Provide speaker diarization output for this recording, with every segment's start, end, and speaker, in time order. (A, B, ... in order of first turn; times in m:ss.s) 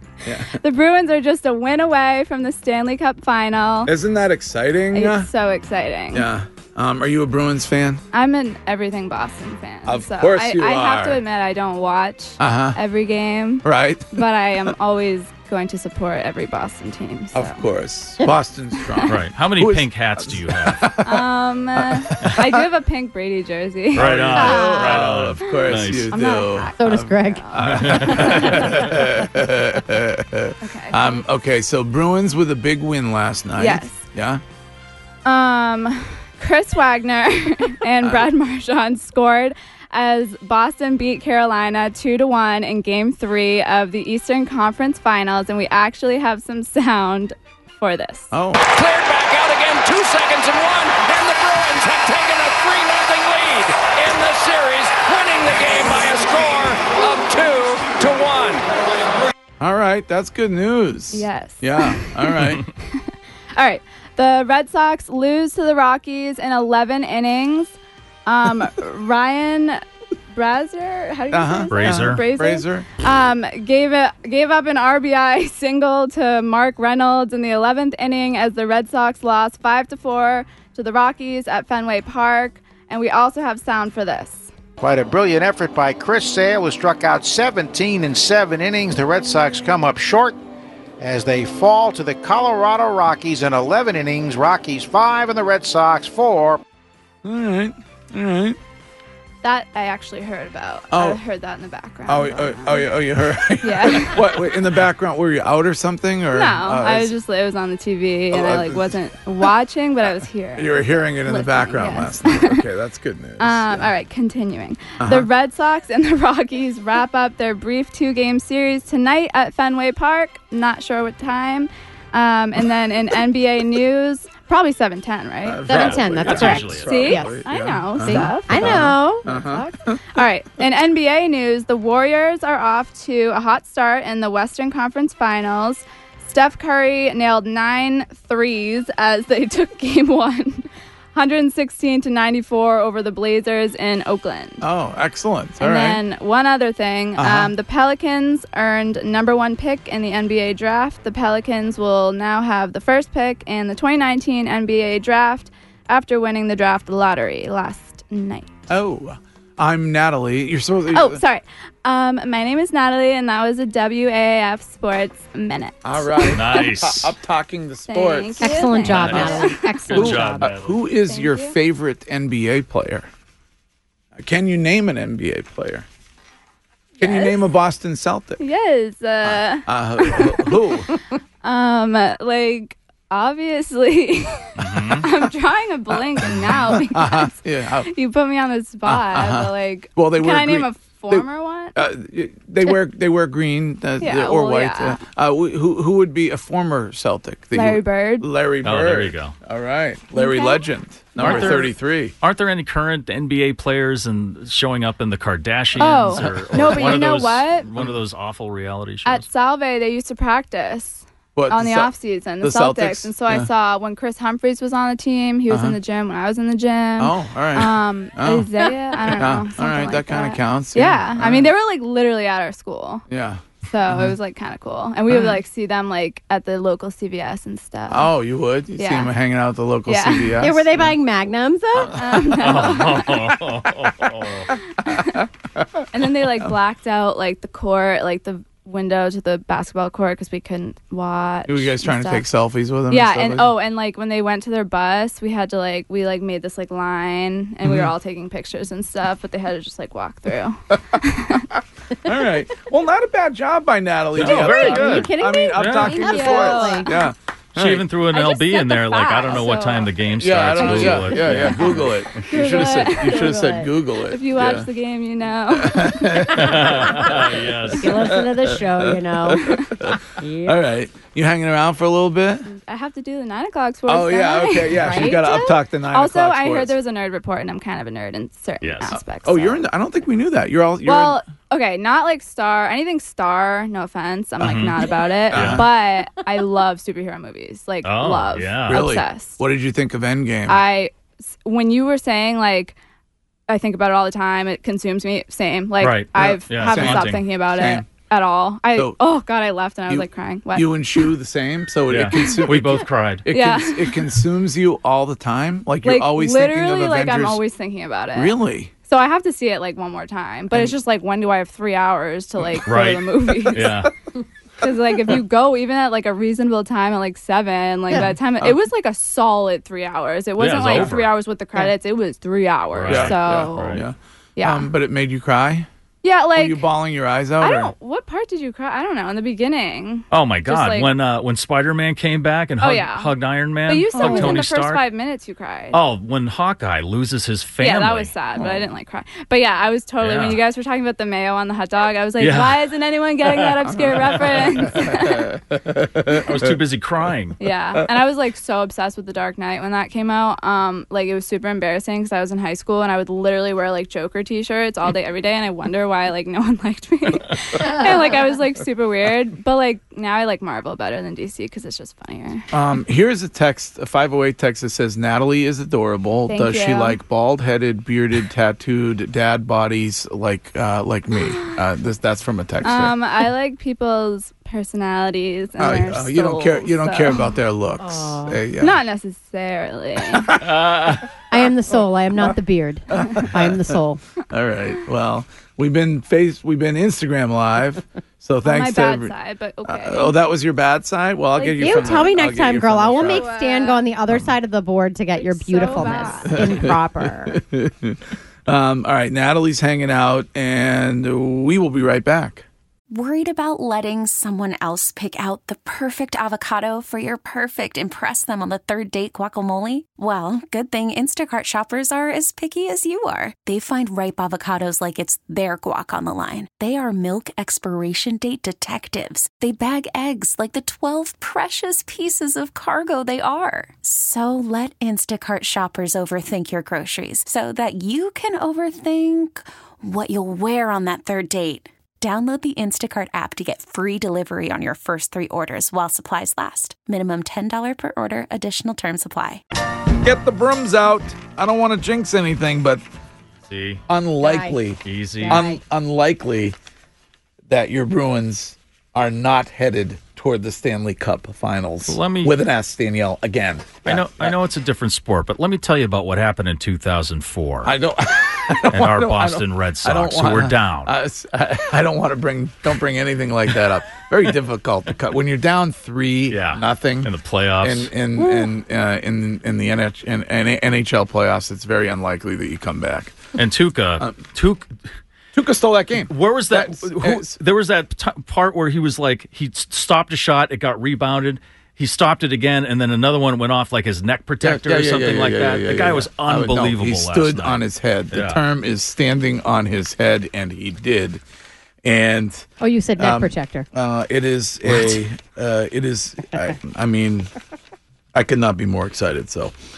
0:00.2-0:00.6 A
0:00.5-0:03.9 B
0:03.8-0:05.3 A
0:04.9-0:06.3 B
0:06.1-0:08.0 A
0:08.1-0:17.6 B
0:09.8-0:11.2 A
0:12.4-0:12.8 A
0:13.6-0:14.2 A
0:17.3-0:21.2 A
0:19.1-0:20.9 C
0:21.0-0:28.8 B
0:21.8-0:22.6 A
0:23.9-0:26.1 C
0:23.9-0:34.4 A
0:26.8-0:29.1 D
0:27.7-0:28.5 C
0:30.6-0:31.2 B
0:33.6-0:34.0 B
0:35.2-0:48.3 B
0:48.3-0:48.6 A
0:48.6-0:58.6 E
0:59.6-1:02.6 A
1:01.1-1:02.4 B
1:02.9-1:24.5 B
1:11.3-1:12.9 A
1:11.7-1:12.2 C
1:24.8-1:30.4 F
1:31.0-1:36.6 F
1:37.2-1:38.6 A
1:39.4-1:42.9 B
1:40.9-1:41.2 A
1:42.1-1:47.1 A
1:43.6-1:44.5 B
1:46.3-1:52.6 B
1:48.3-1:49.0 A
1:50.6-1:53.9 A
1:53.4-2:05.7 B
1:55.0-1:55.3 A
2:05.4-2:10.0 A
2:05.6-2:07.4 D
2:05.7-2:07.1 C
2:06.7-2:09.4 B
2:08.0-2:09.7 D
2:10.1-2:24.6 B
2:24.6-2:26.0 A
2:25.6-2:38.5 B
2:27.2-2:27.5 A
2:38.7-2:41.2 A
2:40.9-2:46.6 B
2:45.8-2:49.3 A
2:46.3-2:47.1 C
2:47.9-2:49.7 B
2:48.4-2:50.5 D
2:48.9-2:50.8 C
2:49.9-2:53.1 A
2:51.1-2:51.5 B
2:54.2-2:55.8 A
2:57.0-2:57.4 B
2:57.0-2:58.4 A
2:58.4-3:11.8 B
2:59.6-3:01.0 A
3:04.6-3:05.0 C
3:05.9-3:07.9 A
3:08.8-3:22.1 A
3:14.0-3:15.0 B
3:17.5-3:18.3 B
3:18.6-3:19.3 C
3:20.1-3:20.6 B
3:21.2-3:21.7 B
3:21.2-3:29.2 C
3:25.8-3:27.7 B
3:26.2-3:27.0 A
3:29.0-3:43.0 B
3:31.3-3:33.5 A
3:35.5-3:35.8 A
3:37.0-3:38.5 A
3:39.1-3:41.5 A
3:43.1-3:43.4 A
3:43.7-3:48.1 B
3:45.1-3:45.4 A
3:47.9-3:50.9 A
3:48.8-3:49.1 B
3:49.9-3:50.3 B
3:50.4-3:52.0 D
3:51.9-3:53.2 B
3:52.0-3:52.8 A
3:52.4-3:54.5 C
3:54.8-3:55.2 B
3:55.9-4:02.2 B
4:01.5-4:03.5 A
4:02.9-4:11.4 B
4:07.6-4:07.9 A
4:12.0-4:17.8 A
4:14.2-4:16.0 C
4:14.2-4:16.9 D
4:15.9-4:16.9 B
4:17.5-4:21.9 C
4:18.1-4:19.9 B
4:20.2-4:24.7 A
4:20.6-4:21.5 B
4:22.3-4:23.4 B
4:22.3-4:23.7 D
4:24.1-4:26.3 B
4:25.5-4:32.5 A
4:26.3-4:28.2 C
4:27.8-4:29.5 D
4:30.2-4:30.6 D
4:32.5-4:39.6 B
4:33.9-4:36.7 A
4:34.7-4:35.2 D
4:38.6-4:39.0 C
4:38.9-4:41.2 A
4:40.8-4:49.4 B
4:44.4-4:44.8 C
4:45.3-4:45.7 A
4:45.3-4:45.6 C
4:47.8-4:48.8 C
4:48.7-4:50.6 A
4:50.5-4:52.8 B
4:53.5-5:01.0 B
4:55.8-4:57.2 C
4:56.2-4:57.8 A
4:59.9-5:07.4 A
5:01.9-5:03.2 C
5:03.3-5:04.0 B
5:05.8-5:08.4 B
5:08.1-5:08.7 A
5:08.9-5:13.8 B
5:12.7-5:13.9 C
5:14.6-5:23.8 B
5:18.0-5:18.6 A
5:20.4-5:21.1 C
5:22.7-5:23.8 C
5:22.9-5:25.7 A
5:24.4-5:24.7 B
5:26.0-5:26.6 B
5:26.3-5:27.7 A
5:27.4-5:30.9 B
5:30.1-5:34.8 C
5:32.6-5:33.1 B
5:33.6-5:35.8 B
5:34.0-5:34.4 A
5:35.7-5:38.1 C
5:37.6-5:45.3 B
5:40.0-5:40.4 C
5:42.2-5:42.6 C
5:43.3-5:43.8 C
5:44.5-5:46.5 A
5:46.1-5:47.4 C
5:47.4-6:02.4 B
6:02.5-6:13.0 A
6:06.3-6:07.0 B
6:12.6-6:17.3 B
6:15.6-6:18.8 A
6:17.8-6:18.4 D
6:18.6-6:20.3 B
6:20.2-6:20.6 A
6:20.5-6:21.0 C
6:21.3-6:24.0 D
6:22.9-6:29.1 A
6:28.4-6:30.2 B
6:29.6-6:33.3 A
6:31.4-6:32.1 B
6:31.6-6:37.4 D
6:33.0-6:33.8 B
6:35.2-6:36.6 B
6:36.2-6:42.4 A
6:42.9-7:19.4 G
7:20.0-7:22.8 A
7:23.5-7:23.8 C
7:23.9-7:26.6 A
7:24.2-7:24.6 D
7:24.8-7:25.4 C
7:25.2-7:25.6 D
7:27.5-7:34.3 A
7:31.9-7:32.3 C
7:33.8-7:37.7 C
7:37.6-7:53.2 A
7:38.7-7:40.9 C
7:46.3-7:47.9 C
7:48.2-7:48.5 D
7:53.4-7:54.7 C
7:55.3-7:57.4 A
7:56.1-8:08.4 C
8:04.4-8:11.2 A
8:11.8-8:12.5 A
8:12.6-8:13.6 D
8:13.0-8:17.3 A
8:18.1-8:19.5 A